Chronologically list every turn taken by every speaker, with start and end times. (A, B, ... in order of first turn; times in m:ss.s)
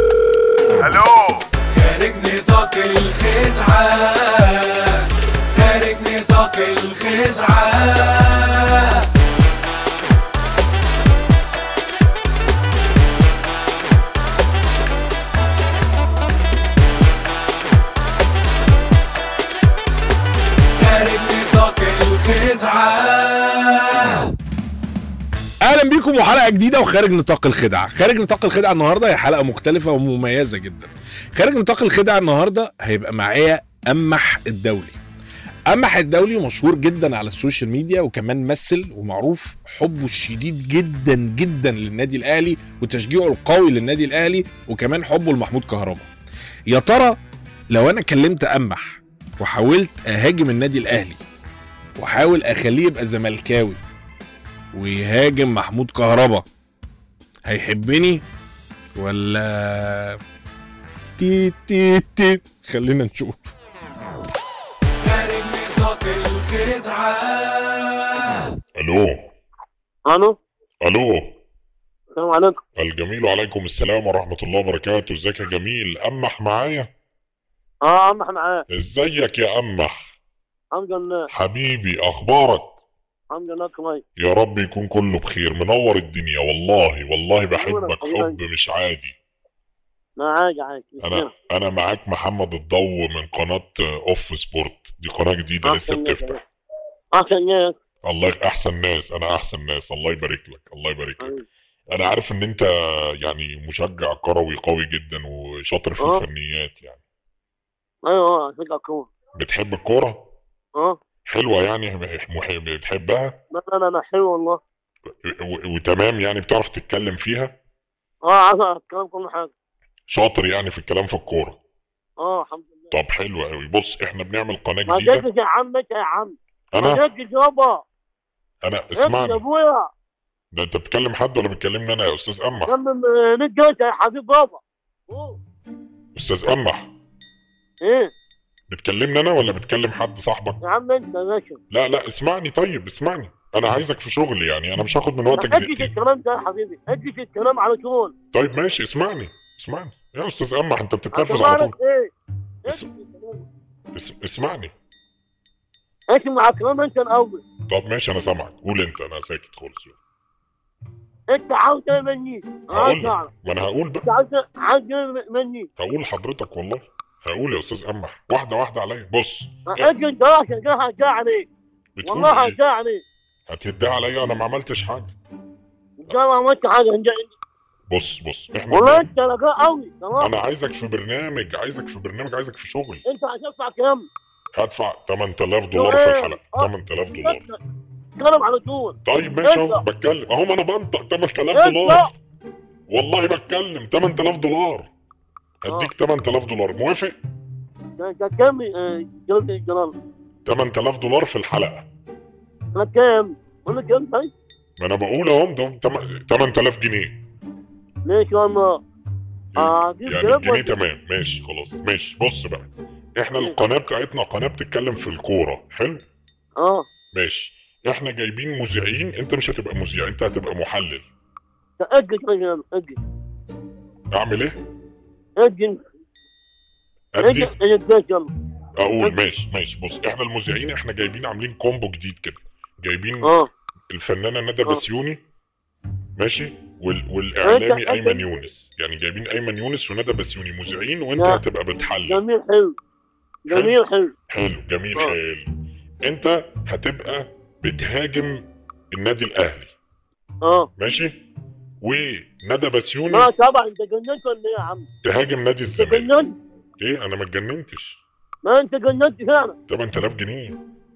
0:00.8-0:01.4 A
0:01.7-0:05.0 B
0:05.6-0:08.4 B
0:20.9-0:23.3 B
0:25.6-0:35.0 A
0:35.7-0:46.1 A
0:46.7-0:47.2 A
0:47.7-0:51.2 A
0:52.0-0:53.8 A
0:54.7-0:56.5 A
0:57.5-0:58.2 A
0:59.0-1:00.2 A
1:01.2-1:03.5 A
1:05.2-1:07.2 B
1:08.8-1:09.3 C
1:10.1-1:10.4 D
1:10.8-1:11.4 C
1:12.2-1:12.6 D
1:12.8-1:16.9 C
1:17.8-1:18.6 D
1:18.7-1:20.0 C
1:20.7-1:21.2 D
1:21.3-1:22.8 C
1:23.3-1:24.0 D
1:24.2-1:29.2 C
1:27.5-1:28.4 D
1:30.2-1:31.3 D
1:31.0-1:36.4 C
1:35.6-1:36.4 D
1:37.1-1:37.8 D
1:38.0-1:41.4 C
1:41.2-1:41.4 D
1:41.9-1:42.7 C
1:43.2-1:47.0 C
1:48.0-1:49.1 D
1:49.4-1:50.2 C
1:51.3-1:53.4 C
1:53.5-1:54.6 D
1:55.2-1:57.5 C
1:58.3-1:59.5 D
2:00.1-2:01.6 C
2:02.2-2:02.9 D
2:02.9-2:05.2 C
2:04.9-2:07.8 D
2:06.7-2:07.0 C
2:08.6-2:09.4 C
2:09.0-2:09.9 D
2:10.5-2:12.7 C
2:12.7-2:15.4 D
2:16.2-2:16.9 C
2:17.8-2:18.1 D
2:18.7-2:20.6 C
2:20.6-2:21.6 D
2:21.7-2:25.9 C
2:25.3-2:28.1 D
2:28.3-2:31.7 C
2:31.1-2:32.1 D
2:32.7-2:33.5 D
2:34.0-2:34.7 C
2:36.1-2:37.4 D
2:37.7-2:40.0 C
2:41.3-2:43.3 D
2:42.7-2:44.1 C
2:44.0-2:45.7 D
2:45.8-2:49.9 C
2:49.7-2:51.5 D
2:52.0-2:52.6 C
2:52.0-2:53.0 D
2:53.5-2:55.2 C
2:56.0-2:57.3 D
2:57.9-2:59.0 C
2:58.7-3:00.3 D
3:00.2-3:03.0 C
3:03.1-3:04.1 D
3:04.5-3:07.5 C
3:05.7-3:07.6 D
3:08.2-3:09.8 D
3:09.1-3:12.1 C
3:11.5-3:12.1 D
3:12.9-3:14.9 C
3:15.6-3:17.2 C
3:18.0-3:20.0 D
3:20.5-3:21.9 C
3:22.8-3:24.3 D
3:24.8-3:27.2 C
3:28.1-3:28.8 D
3:29.6-3:36.0 C
3:29.6-3:30.8 D
3:36.6-3:36.8 D
3:37.1-3:41.1 C
3:41.8-3:43.0 D
3:44.1-3:44.6 C
3:45.4-3:45.8 D
3:47.2-3:47.5 C
3:47.2-3:48.3 D
3:48.8-3:53.4 C
3:53.2-3:53.5 D
3:53.9-3:55.2 C
3:56.2-4:02.2 C
3:57.4-3:58.2 D
4:02.1-4:02.8 D
4:03.5-4:04.1 D
4:03.5-4:03.8 C
4:04.3-4:05.5 C
4:06.1-4:09.7 C
4:10.8-4:11.1 C
4:11.8-4:13.3 C
4:13.1-4:14.9 D
4:15.0-4:16.1 C
4:15.8-4:16.4 D
4:16.8-4:18.0 C
4:18.4-4:19.6 D
4:19.7-4:20.6 C